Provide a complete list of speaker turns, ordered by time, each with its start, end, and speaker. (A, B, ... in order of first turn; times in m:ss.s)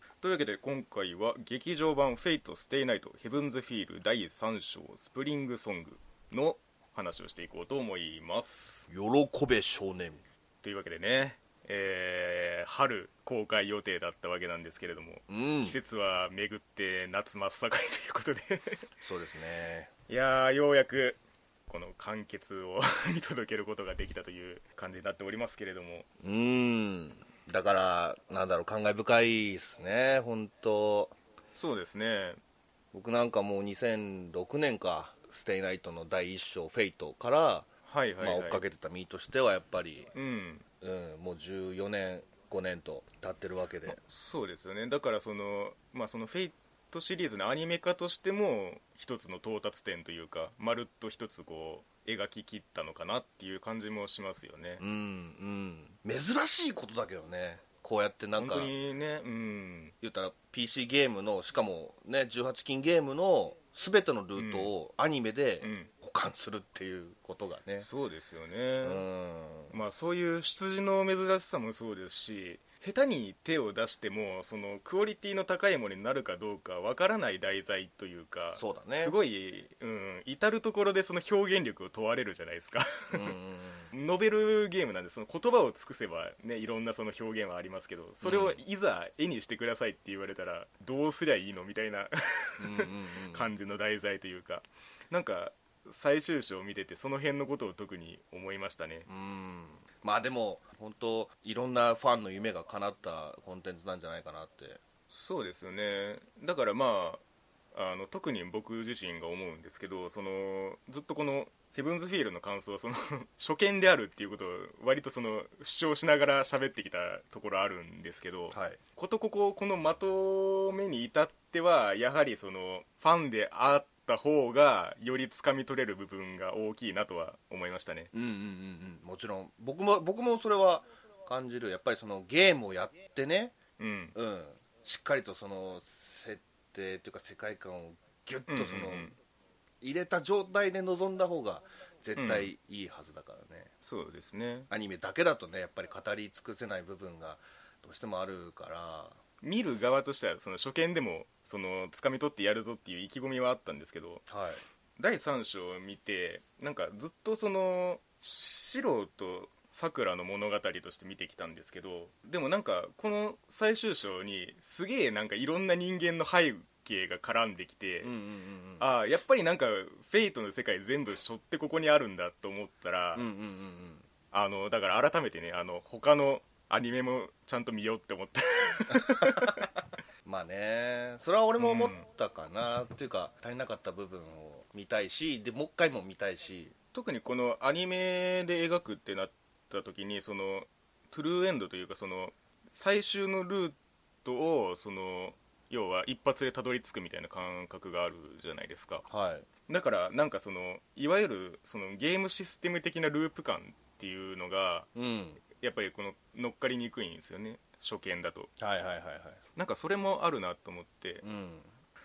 0:00.2-0:08.9 A
0:08.9-0:10.2 B
0:10.6-0:18.9 A
0:15.3-0:15.8 B
0:19.0-0:19.9 B
0:20.1-0:26.1 A
0:26.2-0:31.2 B
0:31.5-0:32.4 A
0:32.9-0:37.7 B
0:37.9-0:38.6 A
0:38.2-0:40.1 B
0:40.1-0:40.6 A
0:40.8-0:44.0 B
0:43.9-0:54.8 A
0:54.8-0:58.7 B
0:58.4-0:59.9 A
1:00.0-1:07.9 B
1:04.4-1:04.7 A
1:05.6-1:05.9 A
1:07.8-1:09.0 A
1:08.8-1:09.7 B
1:09.7-1:23.4 A
1:18.6-1:19.2 B
1:23.1-1:23.9 B
1:23.9-1:39.1 A
1:28.2-1:28.6 B
1:32.6-1:33.5 B
1:39.1-1:44.8 B
1:45.1-1:47.2 A
1:47.7-2:08.1 A
1:58.5-1:58.8 B
2:08.1-2:13.6 B
2:13.8-2:14.2 A
2:14.2-2:19.1 B
2:18.5-2:19.2 A
2:19.8-2:23.7 B
2:22.2-2:22.5 A
2:23.8-2:24.7 A
2:24.7-2:29.2 B
2:29.4-2:34.2 A
2:34.3-2:34.6 B
2:35.0-2:48.1 A
2:48.0-2:48.9 B
2:48.8-2:53.3 A
2:53.2-2:54.1 B
2:54.3-2:59.6 A
2:58.9-2:59.7 B
3:00.2-3:06.7 B
3:01.6-3:02.0 A
3:06.9-3:19.0 A
3:19.1-3:19.5 B
3:19.7-3:24.9 A
3:25.0-3:25.4 B
3:25.5-3:28.5 A
3:28.6-3:29.4 B
3:29.6-3:31.2 A
3:31.2-3:31.7 B